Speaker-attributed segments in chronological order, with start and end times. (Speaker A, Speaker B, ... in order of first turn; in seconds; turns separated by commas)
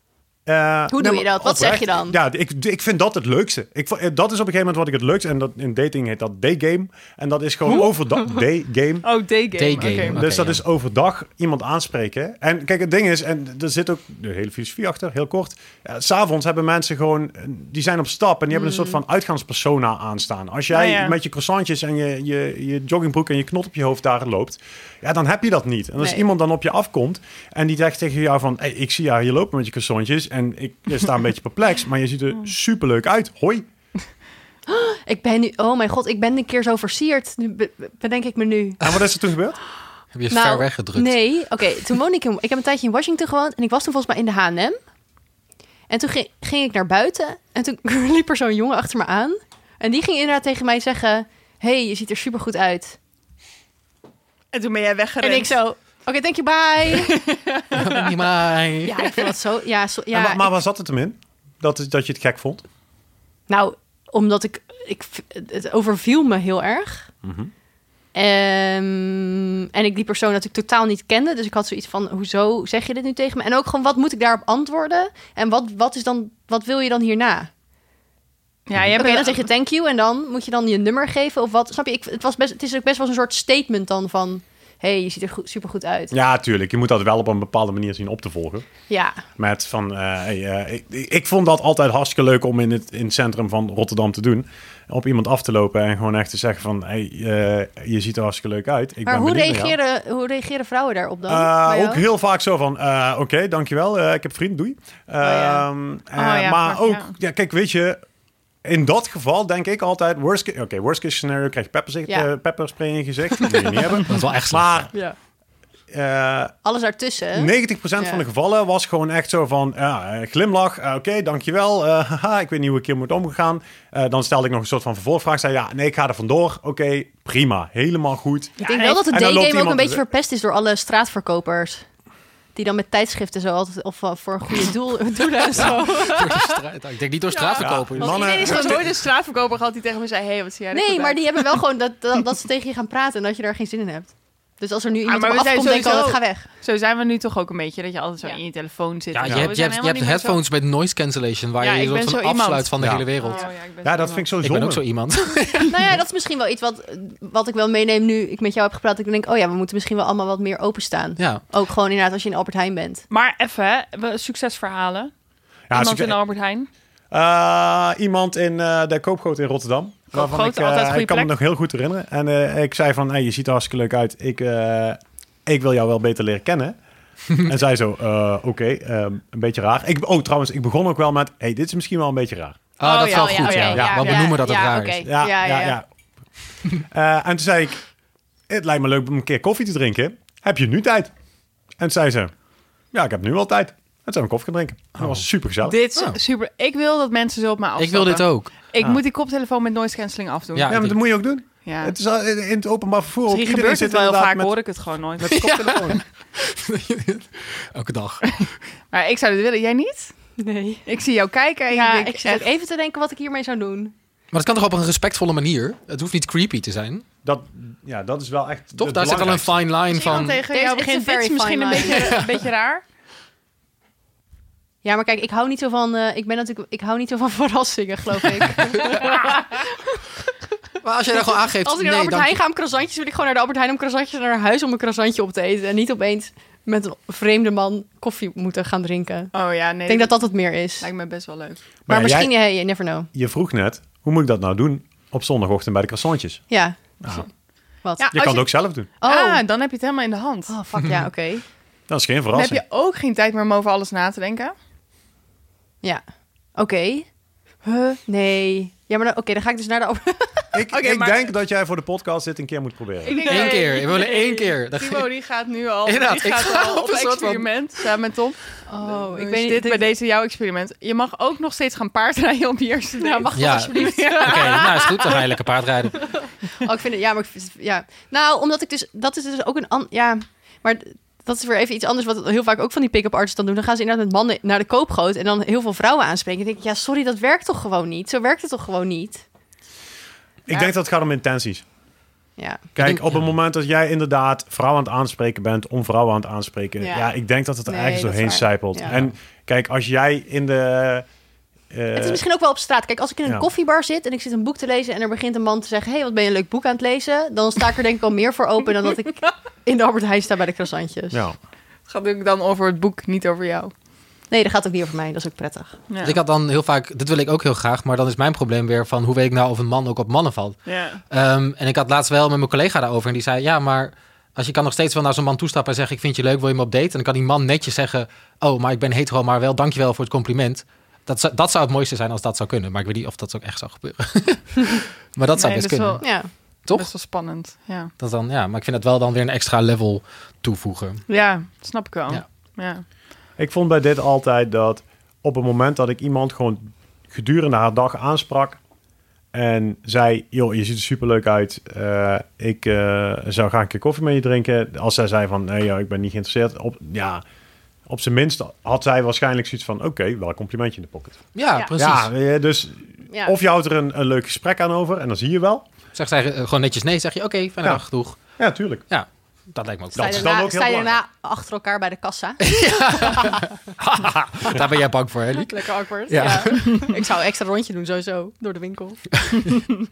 Speaker A: 0.5-9.1, Speaker B: 0.9-2.1, Speaker C: 9.0-10.2, Speaker D: 9.5-10.6, Speaker A: 10.0-33.6, Speaker B: 18.5-19.0, Speaker C: 20.7-21.1, Speaker B: 26.0-26.2, Speaker B: 34.7-38.8, Speaker A: 38.8-39.6, Speaker D: 40.1-41.2, Speaker B: 40.3-44.8, Speaker B: 45.9-53.0, Speaker C: 54.5-55.6, Speaker B: 55.2-57.2, Speaker C: 56.9-58.0, Speaker D: 57.7-59.0, Speaker B: 58.8-60.5, Speaker A: 60.1-62.6, Speaker B: 63.5-67.1, Speaker A: 67.2-67.5, Speaker B: 68.1-77.5, Speaker C: 78.7-79.5, Speaker B: 79.0-86.1, Speaker A: 86.1-88.7, Speaker B: 88.9-89.2, Speaker A: 89.4-99.8, Speaker B: 99.0-102.0, Speaker A: 101.3-108.0, Speaker B: 105.2-105.6, Speaker C: 106.1-107.1, Speaker A: 108.6-115.0, Speaker D: 114.1-114.9, Speaker A: 115.9-116.6, Speaker B: 116.6-118.2, Speaker A: 117.3-128.6, Speaker C: 128.6-129.0, Speaker B: 128.6-131.9, Speaker A: 129.1-130.0, Speaker B: 132.5-136.5, Speaker A: 135.5-135.8, Speaker D: 135.5-138.8, Speaker C: 137.3-141.5, Speaker A: 137.6-139.1, Speaker B: 140.7-146.4, Speaker C: 145.1-150.4, Speaker D: 149.1-153.4, Speaker A: 149.3-149.5, Speaker C: 151.6-154.3, Speaker A: 152.8-153.1, Speaker B: 153.2-153.5, Speaker A: 153.8-154.8, Speaker D: 154.4-155.9, Speaker B: 155.7-163.0, Speaker D: 161.2-161.4, Speaker C: 163.1-165.1, Speaker A: 165.7-166.2, Speaker C: 165.7-166.7, Speaker A: 167.1-176.8, Speaker C: 170.1-171.3, Speaker A: 177.3-182.6, Speaker D: 182.8-185.1, Speaker C: 182.8-184.2, Speaker B: 183.0-185.8, Speaker A: 183.8-184.3, Speaker A: 185.0-187.9, Speaker A: 188.5-191.1, Speaker A: 191.7-192.3, Speaker A: 192.9-195.8, Speaker D: 195.0-195.3, Speaker C: 195.6-200.8, Speaker D: 197.8-198.6, Speaker D: 200.5-201.0, Speaker A: 200.7-204.5, Speaker C: 201.6-201.9, Speaker C: 203.3-205.4, Speaker A: 205.2-206.0, Speaker D: 205.2-208.5, Speaker C: 208.4-212.4, Speaker B: 210.4-210.8, Speaker B: 211.7-213.9, Speaker D: 214.3-217.0, Speaker A: 217.2-219.7, Speaker D: 218.8-220.4, Speaker C: 219.9-222.8, Speaker B: 220.1-222.1, Speaker D: 221.9-222.3, Speaker B: 224.8-230.1, Speaker D: 230.8-232.3, Speaker B: 231.1-240.9, Speaker C: 239.3-241.6, Speaker A: 241.9-242.3, Speaker B: 241.9-243.1, Speaker A: 243.1-247.3, Speaker B: 246.5-247.0, Speaker B: 247.8-249.4, Speaker C: 248.0-248.4, Speaker A: 248.1-248.9, Speaker C: 249.0-250.5, Speaker B: 250.5-251.4, Speaker A: 251.9-252.6, Speaker C: 252.3-254.5, Speaker B: 256.5-260.5, Speaker A: 260.5-263.5, Speaker C: 260.7-261.3, Speaker C: 263.1-275.2, Speaker B: 263.1-263.4, Speaker D: 263.3-265.1, Speaker D: 265.9-267.5, Speaker B: 268.7-269.9, Speaker B: 273.0-275.2, Speaker D: 273.3-276.2, Speaker B: 276.0-289.2, Speaker A: 290.5-291.6, Speaker B: 292.4-292.6, Speaker A: 292.7-301.1, Speaker D: 292.8-293.3, Speaker B: 296.8-297.1, Speaker B: 297.6-298.9, Speaker D: 298.8-299.1, Speaker A: 301.7-302.2, Speaker B: 301.9-311.2, Speaker A: 311.1-311.4, Speaker C: 311.9-313.7, Speaker B: 314.3-315.8, Speaker C: 315.9-316.2, Speaker D: 316.0-336.9, Speaker C: 320.6-321.0, Speaker C: 335.3-337.9, Speaker B: 336.0-336.3, Speaker D: 338.0-341.1, Speaker C: 341.1-342.8, Speaker A: 343.4-348.6, Speaker A: 349.3-357.2, Speaker A: 357.9-361.2, Speaker D: 361.3-362.1, Speaker A: 361.8-365.6, Speaker B: 363.1-363.3, Speaker D: 365.9-368.4, Speaker A: 368.4-368.9, Speaker D: 368.9-370.3, Speaker B: 369.9-373.3, Speaker A: 369.9-370.9, Speaker D: 372.4-376.9, Speaker B: 375.4-379.0